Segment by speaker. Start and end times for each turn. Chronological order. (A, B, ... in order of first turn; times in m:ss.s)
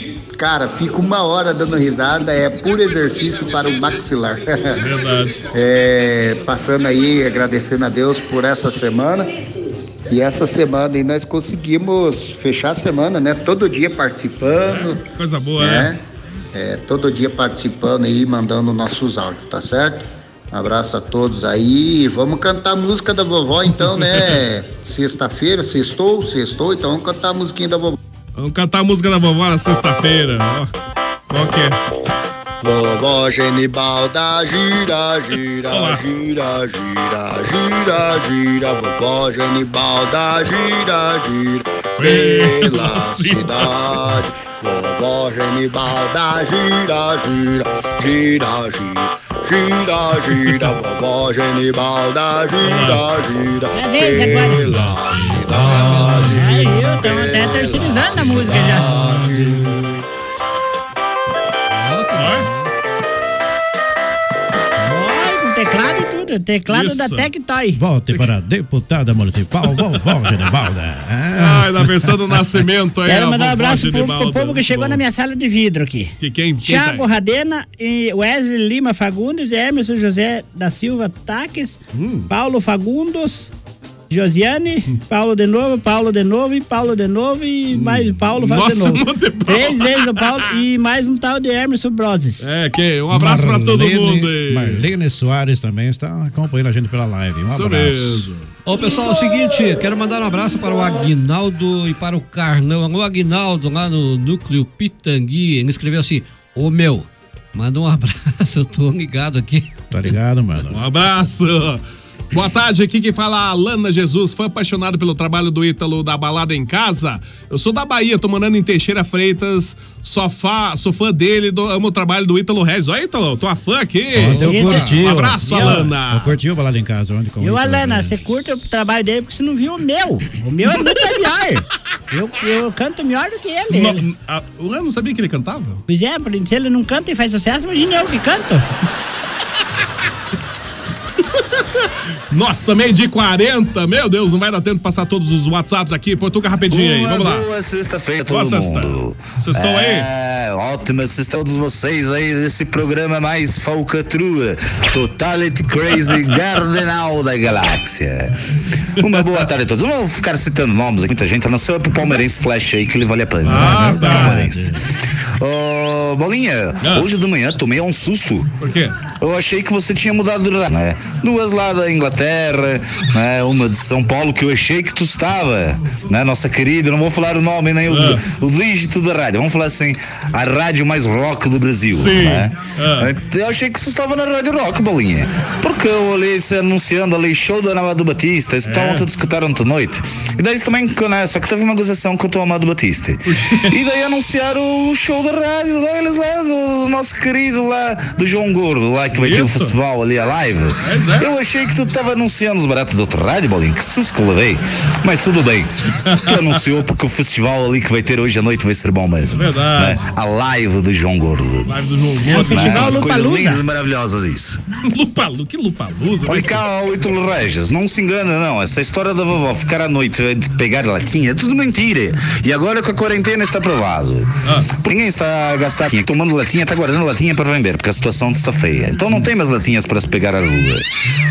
0:00.4-0:04.8 A
0:04.8-0:05.5 B
0:05.5-0:09.3 A
0:10.1-0:15.0 A
0:14.6-0:15.9 B
0:15.6-0:16.0 A
0:16.5-0:28.0 A
0:23.9-0:24.4 B
0:28.4-0:30.7 B
0:31.3-0:31.8 B
0:32.6-0:56.4 A
0:35.7-0:36.0 B
0:42.0-0:44.2 B
0:52.6-0:53.0 B
0:53.7-0:54.7 C
0:55.3-0:56.5 D
0:55.5-0:56.3 E
0:56.4-0:58.9 C
0:57.0-0:57.8 A
0:57.8-0:58.9 B
0:57.8-0:59.4 D
0:59.0-0:59.8 A
1:01.7-1:02.7 D
1:02.2-1:02.5 B
1:04.8-1:07.8 C
1:06.7-1:07.3 B
1:07.8-1:12.1 E
1:11.4-1:15.0 B
1:13.1-1:23.5 C
1:16.2-1:17.1 B
1:21.9-1:22.3 B
1:24.1-1:32.5 C
1:27.7-1:30.5 B
1:32.4-1:34.9 B
1:33.1-1:38.3 E
1:37.5-1:38.5 B
1:38.7-1:49.8 D
1:49.9-1:50.8 E
1:50.7-2:06.4 B
2:04.1-2:08.4 E
2:04.3-2:05.0 D
2:04.4-2:05.9 C
2:07.4-2:14.0 C
2:13.7-2:15.8 B
2:15.9-2:18.6 C
2:21.6-2:27.5 B
2:26.7-2:38.4 F
2:28.3-2:30.1 B
2:39.0-2:44.7 F
2:39.0-2:39.5 B
2:43.4-2:44.5 B
2:43.5-2:44.8 E
2:45.4-2:48.5 F
2:46.8-2:47.1 B
2:48.6-2:49.0 B
2:49.2-3:31.7 F
2:57.9-2:58.2 B
3:01.9-3:03.1 B
3:08.6-3:09.1 B
3:13.3-3:13.8 B
3:19.1-3:19.8 B
3:20.8-3:21.3 B
3:26.1-3:26.6 B
3:29.3-3:30.1 B
3:31.7-3:33.1 B
3:32.2-3:33.6 C
3:32.5-3:34.6 F
3:34.9-3:36.6 B
3:36.2-3:50.8 F